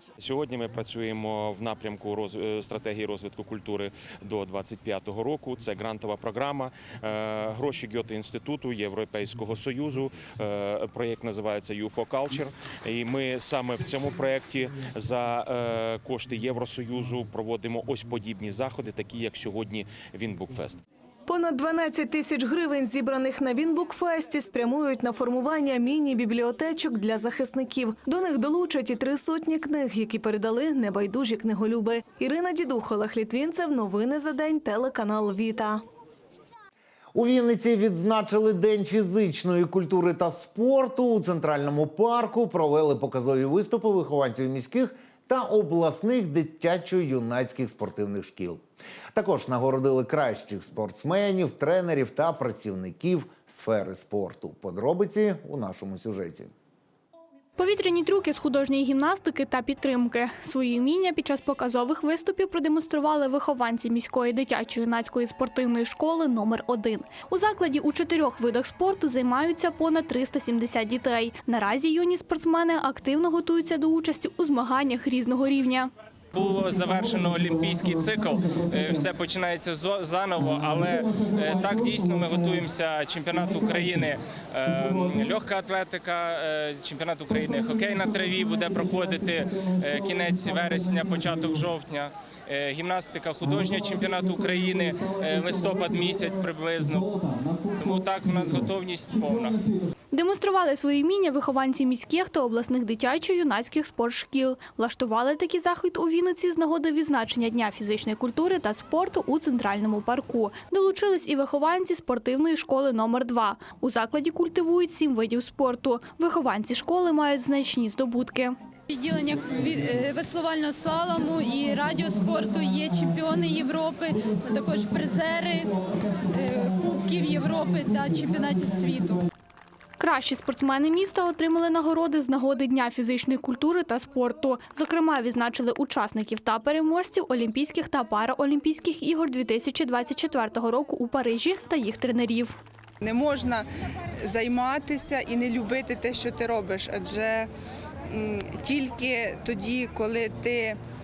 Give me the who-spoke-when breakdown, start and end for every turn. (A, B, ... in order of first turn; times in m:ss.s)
0:00.2-0:20.8 A
0:21.3-0:35.8 B
0:37.1-0:56.5 C
0:57.6-1:15.9 D
1:16.3-1:39.6 E
1:40.1-1:58.6 D
1:58.9-2:05.8 F
2:06.3-2:09.2 F
2:10.0-2:22.6 D
2:23.0-2:23.6 G
2:24.2-2:27.5 G
2:28.1-2:30.8 G